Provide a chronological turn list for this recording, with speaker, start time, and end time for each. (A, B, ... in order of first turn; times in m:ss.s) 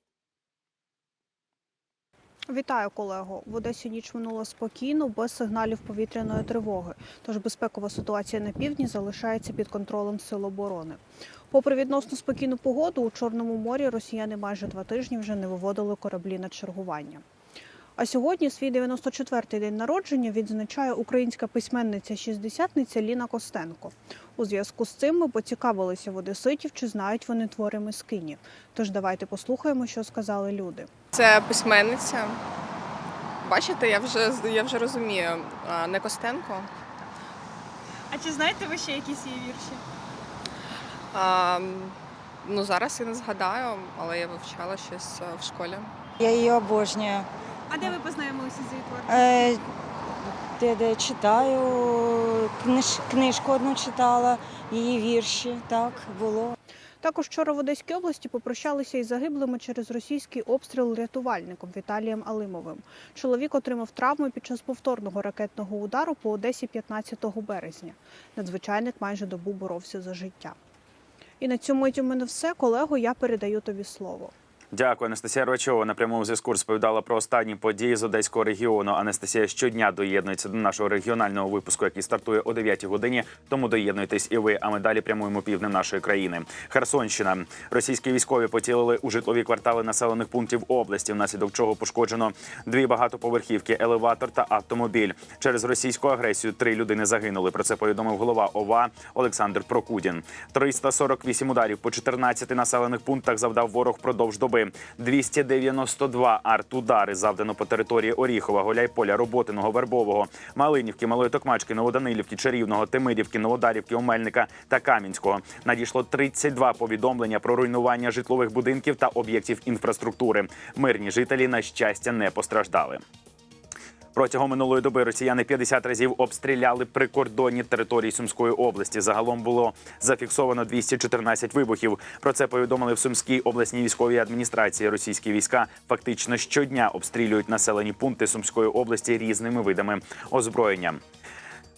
0:02.5-0:17.2 A
0:18.0-0:30.9 A
0:31.2-0:32.4 B
0:33.4-0:36.7 B
0:38.1-0:39.8 C
0:41.1-0:41.9 B
0:42.4-0:45.9 B
0:46.2-0:48.0 D
0:48.0-0:49.0 C
0:49.0-0:49.6 D
0:50.6-0:56.6 D
0:57.0-1:10.6 A
1:11.4-1:14.3 A
1:14.7-2:03.0 E
2:04.1-2:21.0 E